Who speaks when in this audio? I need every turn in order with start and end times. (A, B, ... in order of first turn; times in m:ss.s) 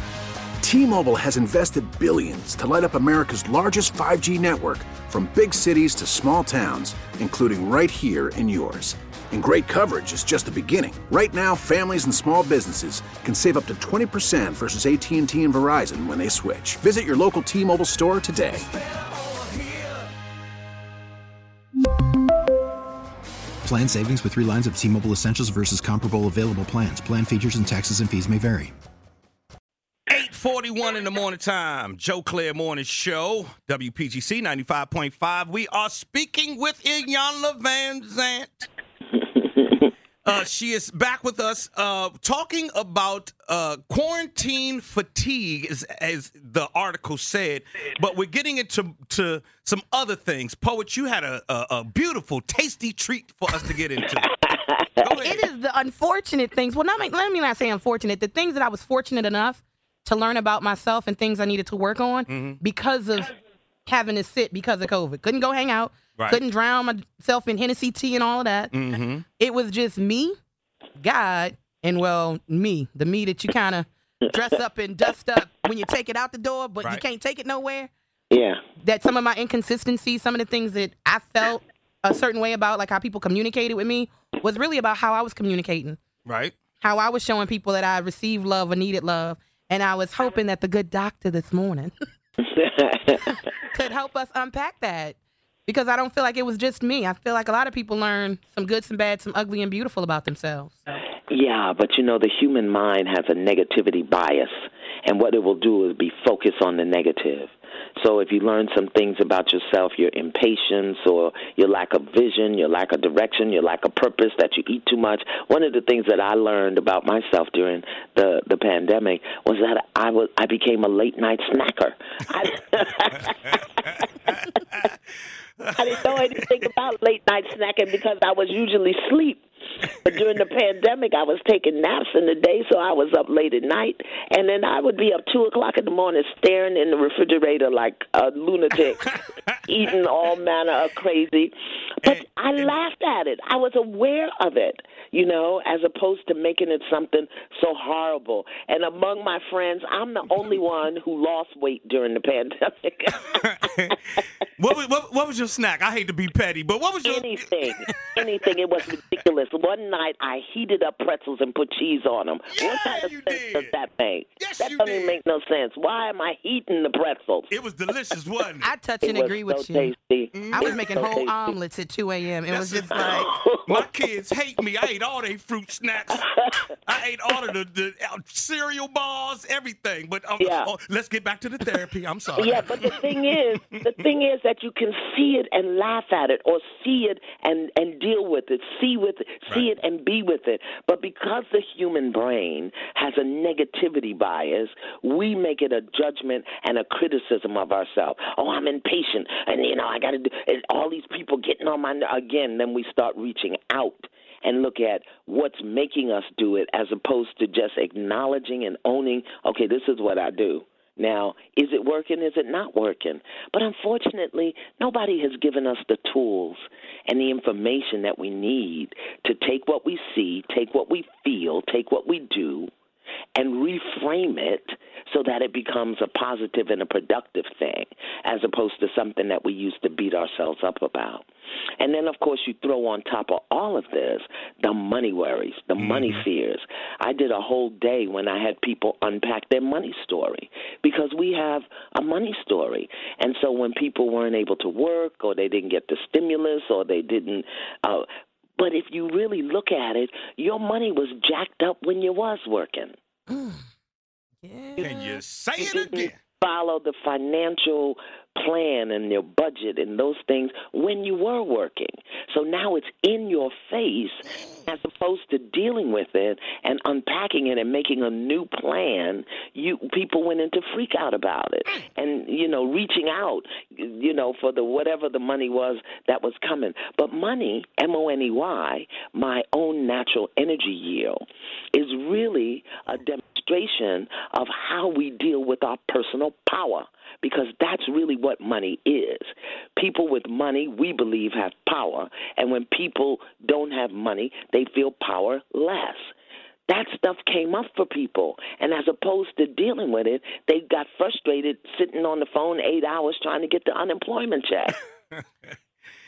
0:00.6-0:18.6 A
0:23.6-0:28.7 B
0:30.1-0:38.6 C
0:39.2-0:39.8 D
0:40.2-0:54.4 C
0:54.0-0:55.2 D
0:55.0-0:55.4 C
0:55.2-1:03.3 E
1:02.3-1:02.6 C
1:03.8-1:08.7 E
1:08.7-1:09.2 C
1:09.4-1:10.4 E
1:11.0-1:17.9 E
1:18.3-1:18.6 D
1:18.8-1:26.0 E
1:26.2-1:26.6 C
1:26.8-1:31.9 E
1:32.4-1:33.4 D
1:33.7-1:35.2 E
1:35.7-1:40.9 E
1:41.3-2:04.4 D
2:04.0-2:04.9 C
2:05.6-2:06.6 C
2:05.8-2:19.1 D
2:19.0-2:19.6 C
2:19.7-2:21.5 D
2:22.0-2:22.7 C
2:22.0-2:33.4 D
2:33.3-2:38.2 C
2:33.9-2:34.2 D
2:37.0-2:47.5 D
2:42.5-2:43.7 C
2:44.4-2:45.2 C
2:47.5-2:48.7 C
2:48.6-2:49.9 E
2:49.0-2:51.5 D
2:50.3-2:51.1 C
2:50.5-2:53.3 E
2:52.5-2:56.2 C
2:52.9-2:53.9 D
2:56.1-2:56.6 D
2:56.8-3:03.8 C
3:00.4-3:00.7 D
3:02.4-3:42.7 D
3:43.3-3:51.2 D
3:51.8-4:08.0 D
3:55.8-3:56.2 C
4:08.6-4:12.9 D
4:13.3-4:13.6 E
4:14.4-4:15.1 E
4:14.8-4:16.2 C
4:15.6-4:41.2 D
4:41.7-4:56.1 D
4:56.7-5:04.8 D
5:05.2-5:05.5 C